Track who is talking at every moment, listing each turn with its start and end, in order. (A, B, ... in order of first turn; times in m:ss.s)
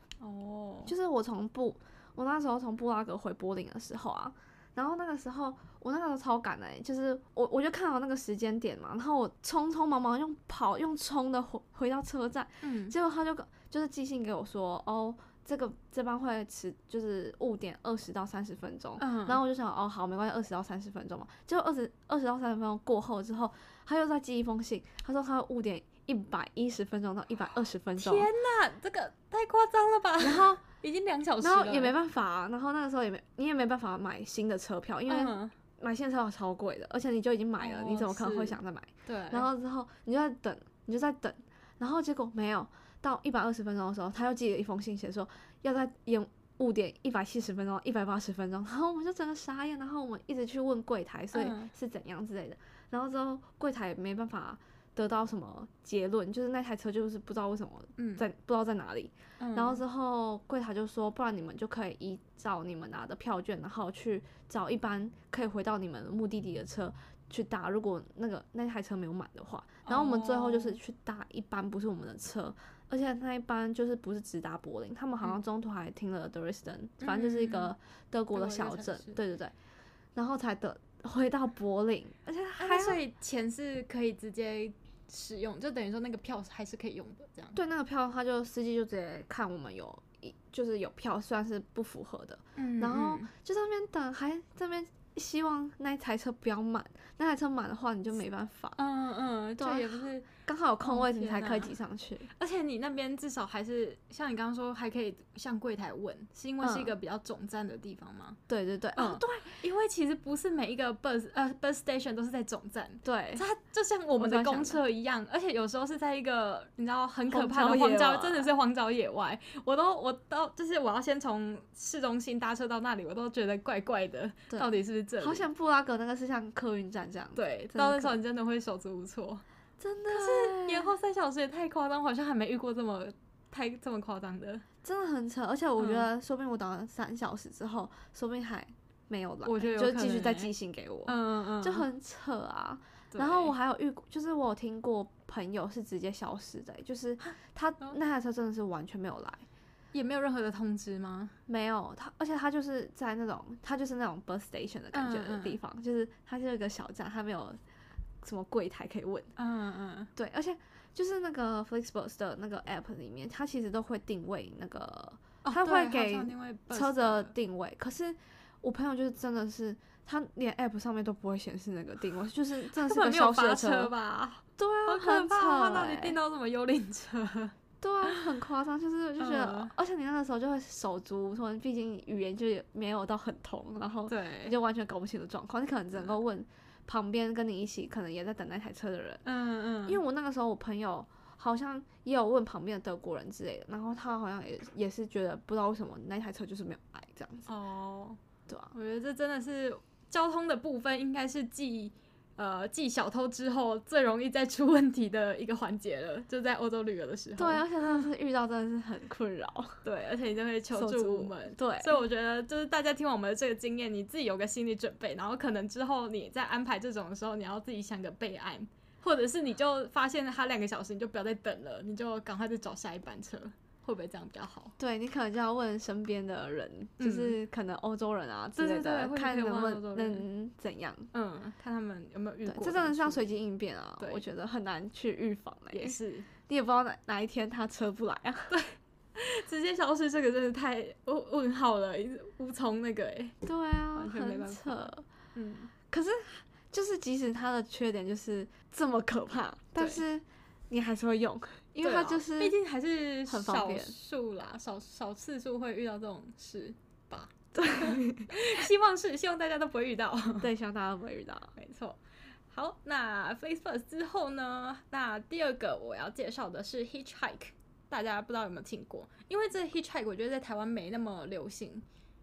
0:00.2-0:00.9 A
0:00.8-0:28.3 B
0:12.6-0:12.9 A
0:19.0-0:19.4 A
0:28.0-0:31.9 A
0:30.2-0:30.6 B
0:31.4-1:19.5 B
0:35.1-0:35.5 A
0:37.6-0:39.5 A
0:51.3-0:51.7 A
0:58.0-0:58.2 A
0:59.4-0:59.8 A
1:09.8-1:10.8 A
1:17.0-1:17.7 A
1:18.3-1:19.2 A
1:20.1-1:23.0 B
1:22.6-1:27.6 A
1:27.5-1:38.8 B
1:32.6-1:33.3 A
1:38.8-1:40.3 A
1:39.6-1:42.3 B
1:40.8-1:41.7 A
1:42.3-1:48.4 A
1:46.6-1:46.9 B
1:48.5-1:49.6 B
1:49.0-2:05.5 A
1:53.0-1:53.4 B
1:54.2-1:54.8 B
1:57.3-1:58.5 B
2:05.2-2:08.2 B
2:07.4-2:09.4 A
2:09.8-2:10.9 B
2:10.1-2:14.6 A
2:14.8-2:29.4 B
2:15.8-2:16.1 A
2:19.4-2:20.5 A
2:21.1-2:21.8 A
2:23.1-2:23.5 A
2:27.2-2:28.0 A
2:29.9-2:31.3 A
2:31.5-2:37.6 B
2:34.9-2:35.6 A
2:38.2-2:39.3 B
2:39.4-2:40.1 A
2:40.2-2:53.9 B
2:45.4-2:47.3 A
2:52.8-2:58.2 A
2:54.6-2:56.2 B
2:57.8-3:09.2 B
2:59.2-2:59.7 A
3:04.1-3:04.6 A
3:09.2-3:10.0 A
3:09.9-3:17.5 B
3:17.4-3:18.2 A
3:18.5-3:18.7 B
3:18.7-3:28.0 A
3:27.4-3:29.8 B
3:29.8-3:44.7 A
3:30.7-3:32.0 B
3:44.8-3:51.1 B
3:47.0-3:47.3 A
3:48.6-3:50.2 A
3:51.1-3:53.3 A
3:52.4-3:58.5 B
3:54.0-3:54.2 A
3:55.7-3:56.3 A
3:58.5-4:03.4 A
4:03.4-4:05.0 B
4:03.9-4:05.7 A
4:05.9-4:12.5 B
4:09.8-4:10.0 A
4:11.8-4:20.5 A
4:13.3-4:13.9 B
4:17.5-4:18.6 B
4:20.4-4:21.5 B
4:21.6-4:22.0 A
4:22.5-4:31.8 A